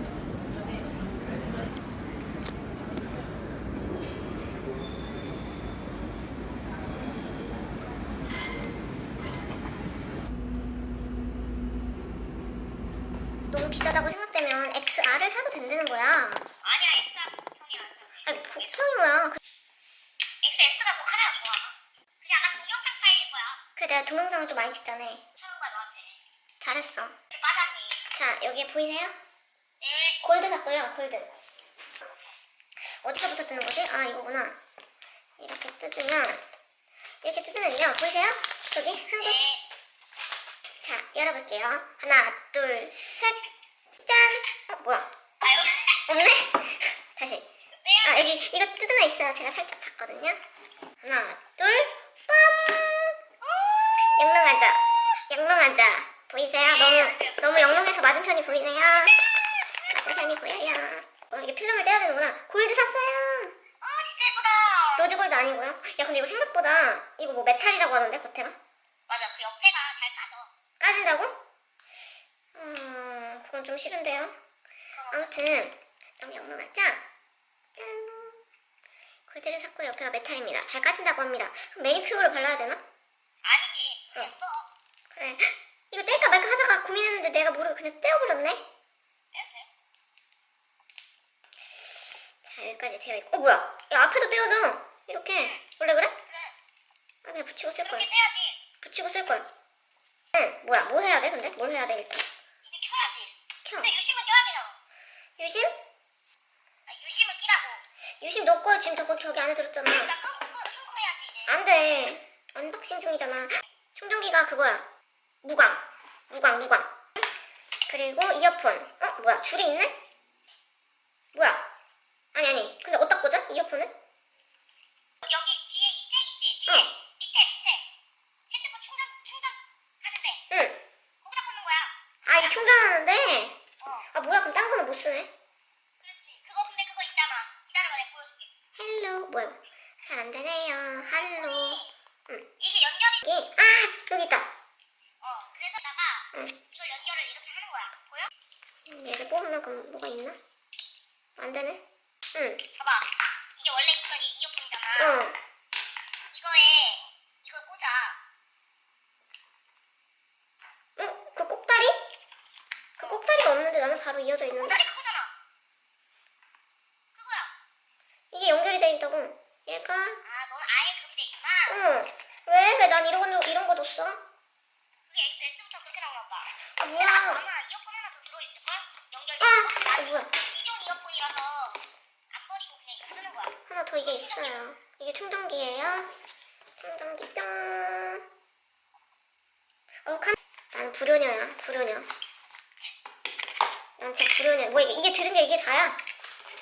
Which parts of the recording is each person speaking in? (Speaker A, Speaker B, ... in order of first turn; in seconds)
Speaker A: 13.5-16.4, 18.2-19.4, 23.8-25.2, 26.6-27.2, 28.1-29.1, 30.2-31.3, 32.8-34.6, 35.4-36.4, 37.2-39.4, 40.8-43.4, 44.0-45.1, 46.1-47.5, 48.0-50.4, 51.0-53.2, 54.0-59.2, 59.9-63.5, 65.0-68.5, 70.8-71.3, 72.5-74.3, 75.1-77.0, 77.8-78.4, 79.3-82.8, 85.1-88.6, 92.4-96.2, 97.2-98.1, 98.8-99.5, 100.3-102.3, 103.6-103.9, 105.4-105.7, 108.2-110.1, 111.5-114.8, 115.4-116.9, 117.9-119.9, 121.3-121.7, 122.3-123.9, 130.5-130.8, 132.2-133.6, 134.1-135.3, 138.8-142.5, 143.2-144.5, 148.9-150.4, 151.4-151.8, 152.3-152.6, 155.0-155.4, 161.0-162.0, 163.0-164.8, 168.3-170.2, 171.7-174.2, 176.8-177.4, 179.4-180.3, 183.7-186.1, 186.8-188.2, 190.1-192.1, 194.0-196.0
Speaker B: 16.6-18.7, 20.4-23.6, 25.4-26.2, 27.3-28.0, 29.8-30.2, 39.2-39.6, 45.4-46.0, 47.8-48.4, 56.6-57.9, 63.8-65.1, 69.1-70.5, 75.0-75.4, 83.4-84.7, 89.3-89.7, 97.8-98.6, 102.7-104.8, 106.9-107.8, 109.9-111.6, 125.2-127.8, 128.5-130.4, 131.2-132.8, 133.8-134.1, 136.0-138.5, 141.2-141.9, 142.6-143.2, 145.2-148.3, 152.8-155.2, 156.3-158.2, 164.6-165.3, 167.2-167.5, 170.2-171.8, 175.1-181.8, 182.3-183.5, 184.1-184.6